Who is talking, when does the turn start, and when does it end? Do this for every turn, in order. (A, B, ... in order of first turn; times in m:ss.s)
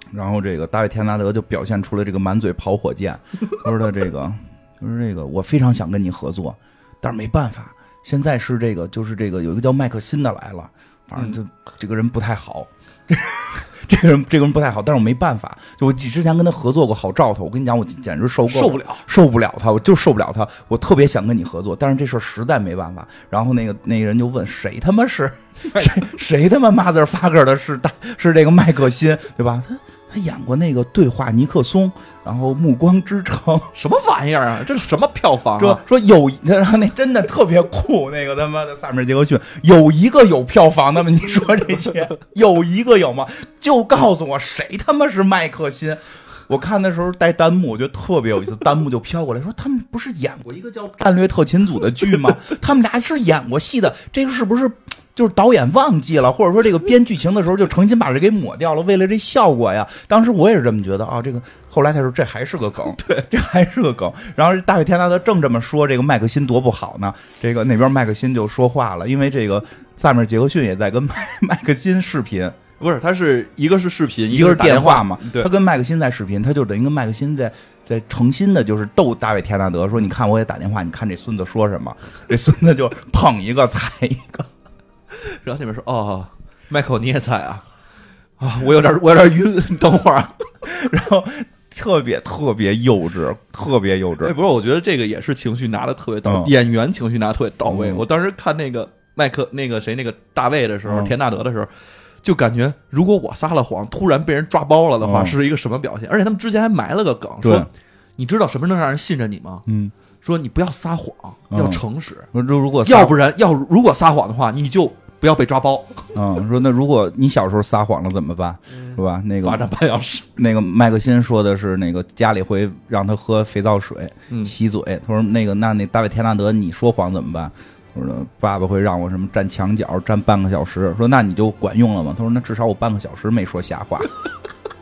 0:00.1-0:33.7 A
0:18.5-0:19.1 B
0:25.7-0:26.1 B
0:33.8-0:35.8 B
0:35.6-1:12.6 A
1:03.0-1:03.3 B
1:12.8-1:15.5 B
1:14.3-1:24.5 A
1:25.1-1:27.6 B
1:28.4-1:30.5 B
1:30.7-1:34.4 A
1:34.2-1:41.7 B
1:36.2-1:36.5 A
1:37.7-1:38.0 A
1:40.9-1:41.1 A
1:42.2-1:49.7 B
1:45.0-1:45.4 A
1:47.4-1:47.7 A
1:49.7-1:49.9 A
1:50.2-1:52.3 B
1:51.5-1:51.8 A
1:52.3-1:53.2 A
1:52.8-1:56.1 B
1:56.2-1:59.7 A
1:58.9-2:00.3 B
2:00.4-2:14.2 A